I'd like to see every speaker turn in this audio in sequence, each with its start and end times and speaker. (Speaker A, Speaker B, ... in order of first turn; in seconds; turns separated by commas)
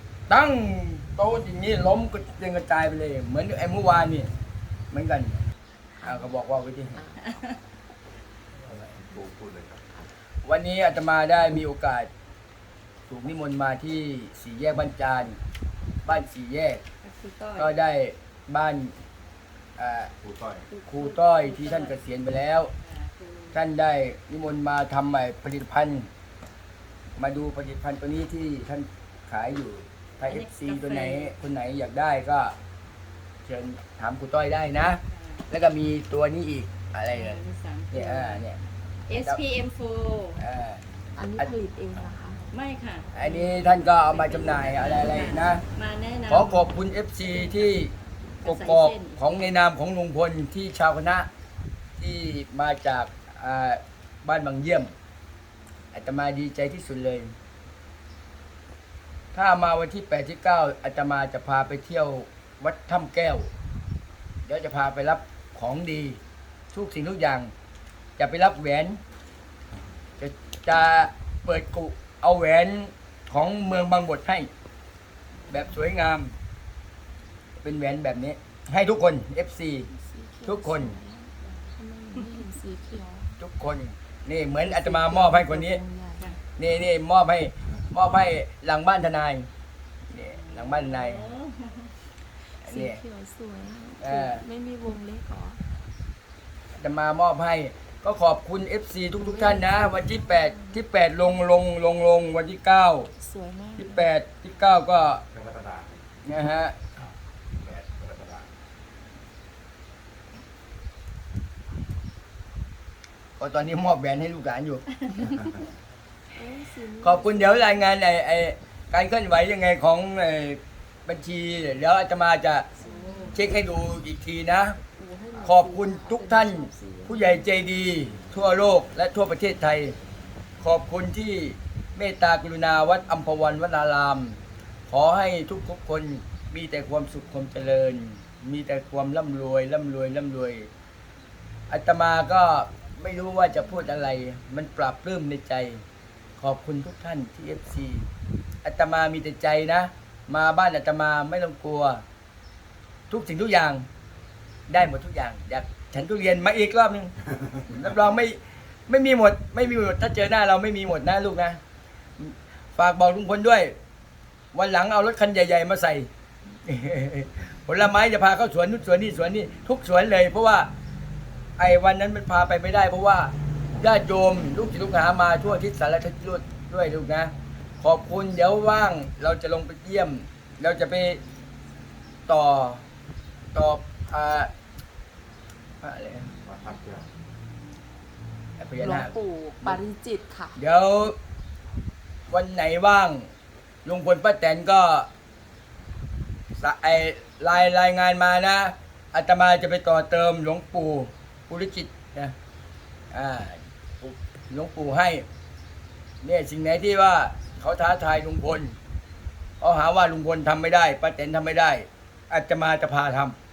Speaker A: 0.3-4.3, Speaker A: 4.9-5.3, Speaker B: 6.0-6.3, Speaker A: 6.0-7.0, Speaker B: 6.9-7.5, Speaker C: 7.2-7.6, Speaker D: 8.7-9.8, Speaker A: 10.4-12.1, Speaker A: 13.1-15.4, Speaker A: 16.1-16.8, Speaker C: 17.0-17.8, Speaker A: 17.6-19.0, Speaker A: 19.8-20.1, Speaker D: 20.2-20.6, Speaker C: 20.7-22.0, Speaker A: 20.9-22.7, Speaker C: 22.8-23.6, Speaker A: 23.5-26.1, Speaker A: 27.2-32.5, Speaker C: 30.3-31.4, Speaker A: 33.4-38.6, Speaker C: 34.9-35.5, Speaker C: 37.1-38.5, Speaker C: 39.1-40.4, Speaker A: 39.1-39.4, Speaker A: 40.4-40.8, Speaker B: 41.2-42.4, Speaker C: 42.5-47.9, Speaker A: 43.1-45.6, Speaker A: 46.3-47.9, Speaker C: 48.4-49.5, Speaker A: 48.4-51.3, Speaker A: 52.0-54.9, Speaker A: 55.9-57.4, Speaker A: 59.3-63.5, Speaker A: 64.5-66.2, Speaker A: 66.7-67.5, Speaker A: 68.2-69.0, Speaker A: 70.2-74.5, Speaker C: 75.3-75.7, Speaker A: 75.5-76.3, Speaker A: 77.6-79.9, Speaker B: 79.9-83.4, Speaker A: 80.5-81.0, Speaker A: 83.4-85.8, Speaker B: 84.6-86.3, Speaker A: 86.6-89.5, Speaker A: 90.1-91.3, Speaker C: 90.3-91.9, Speaker B: 92.6-95.7, Speaker A: 92.6-93.0, Speaker A: 94.0-94.5, Speaker A: 96.8-103.1, Speaker B: 99.2-100.8, Speaker B: 103.2-104.1, Speaker A: 103.8-105.2, Speaker D: 105.3-106.0, Speaker A: 106.2-106.8, Speaker D: 107.0-108.5, Speaker A: 113.4-114.8, Speaker B: 116.3-117.9, Speaker A: 117.0-122.7, Speaker B: 122.8-123.6, Speaker C: 122.9-123.3, Speaker A: 123.3-124.8, Speaker B: 125.0-127.4, Speaker A: 125.4-130.0, Speaker A: 130.6-140.7, Speaker A: 141.7-145.8, Speaker A: 146.4-148.1, Speaker A: 148.6-152.0, Speaker A: 153.1-153.9, Speaker A: 154.7-157.2, Speaker A: 157.7-161.6, Speaker A: 162.2-163.8, Speaker A: 164.5-166.1, Speaker A: 166.7-170.7, Speaker A: 171.6-181.2, Speaker A: 182.3-182.8, Speaker A: 183.5-184.5, Speaker A: 185.8-186.3, Speaker D: 186.4-187.1, Speaker A: 188.6-189.8, Speaker B: 188.8-190.6, Speaker A: 190.6-191.2, Speaker A: 192.3-193.3, Speaker A: 193.8-195.1, Speaker A: 196.6-202.3, Speaker A: 203.1-205.2, Speaker A: 206.2-208.8, Speaker A: 209.6-213.4